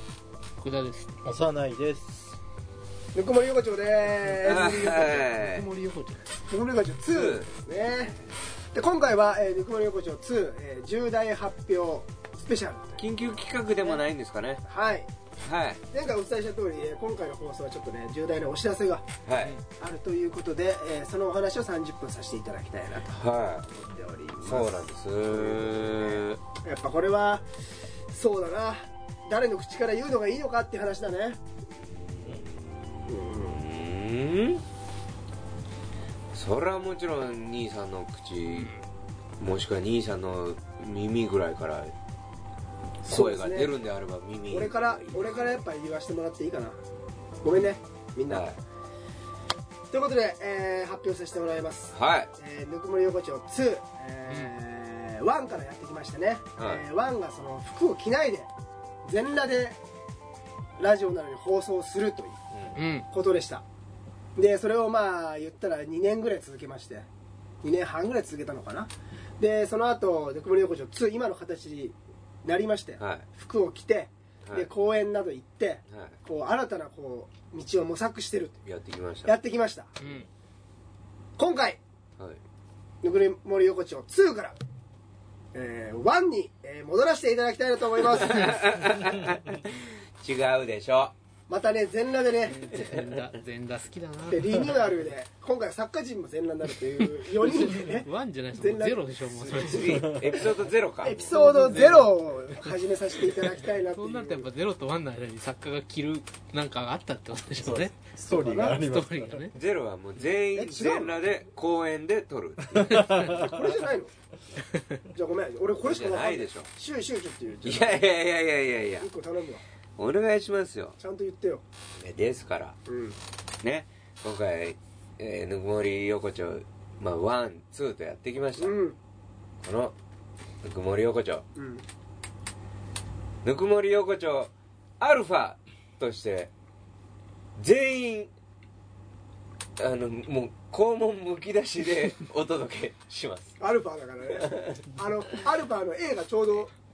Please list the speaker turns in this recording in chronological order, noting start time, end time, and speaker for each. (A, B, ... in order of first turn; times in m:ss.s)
0:00.6-0:01.2 A
0:01.2-0:02.2 B
0:03.1-0:05.3 C
0:04.4-0:05.7 D
0:04.6-0:06.4 A
0:06.5-0:08.2 C
0:07.1-0:07.5 D
0:08.7-0:13.0 C
0:13.0-0:14.6 D
0:14.6-0:15.1 C
0:15.4-0:15.8 D
0:15.9-0:19.1 C
0:19.2-0:19.6 D
0:19.8-0:27.4 C
0:23.1-0:23.6 D
0:24.4-0:26.4 D
0:28.1-0:31.4 C
0:31.8-0:34.6 D
0:33.1-0:33.6 C
0:36.3-0:38.7 D
0:38.5-0:38.8 A
0:39.4-0:41.9 D
0:43.0-0:43.7 C
0:43.0-0:45.6 D
0:44.5-0:46.8 C
0:47.4-0:48.5 C
0:48.3-0:48.6 D
0:49.9-0:58.5 C
0:51.9-0:52.3 D
0:54.3-0:54.5 A
0:56.6-0:56.8 D
0:59.0-0:59.8 C
1:00.8-1:03.6 C
1:02.8-1:03.1 A
1:04.4-1:07.1 C
1:07.6-1:18.6 C
1:13.0-1:13.2 D
1:15.9-1:16.2 D
1:18.6-1:19.3 D
1:19.2-1:19.9 C
1:20.0-1:20.3 A
1:21.4-1:21.8 C
1:23.0-1:24.6 C
1:25.5-1:28.6 C
1:28.1-1:31.1 D
1:31.5-1:33.0 C
1:32.5-1:35.0 A
1:32.7-1:33.0 D
1:34.3-1:39.0 C
1:37.4-1:40.0 A
1:39.3-1:41.3 D
1:39.6-1:40.4 C
1:39.9-1:40.5 B
1:41.0-1:44.5 C
1:41.2-1:42.1 A
1:43.6-1:47.9 A
1:47.6-1:49.5 B
1:48.3-1:48.8 C
1:48.5-1:49.6 A
1:49.5-1:53.1 D
1:50.5-1:51.2 C
1:52.8-1:53.5 A
1:52.8-1:54.1 C
1:52.9-1:53.2 B
1:54.7-1:55.0 A
1:55.1-1:58.0 C
1:55.8-1:56.7 D
1:57.6-1:59.1 D
1:59.0-1:59.6 C
2:00.0-2:01.0 D
2:01.0-2:01.6 C
2:02.0-2:02.8 D
2:02.9-2:03.2 C
2:03.6-2:08.7 D
2:08.6-2:09.0 C
2:09.6-2:09.9 D
2:10.6-2:11.4 D
2:11.5-2:11.8 C
2:13.4-2:16.5 D
2:17.6-2:18.3 D
2:19.8-2:23.6 D
2:23.6-2:26.7 C
2:24.5-2:24.8 D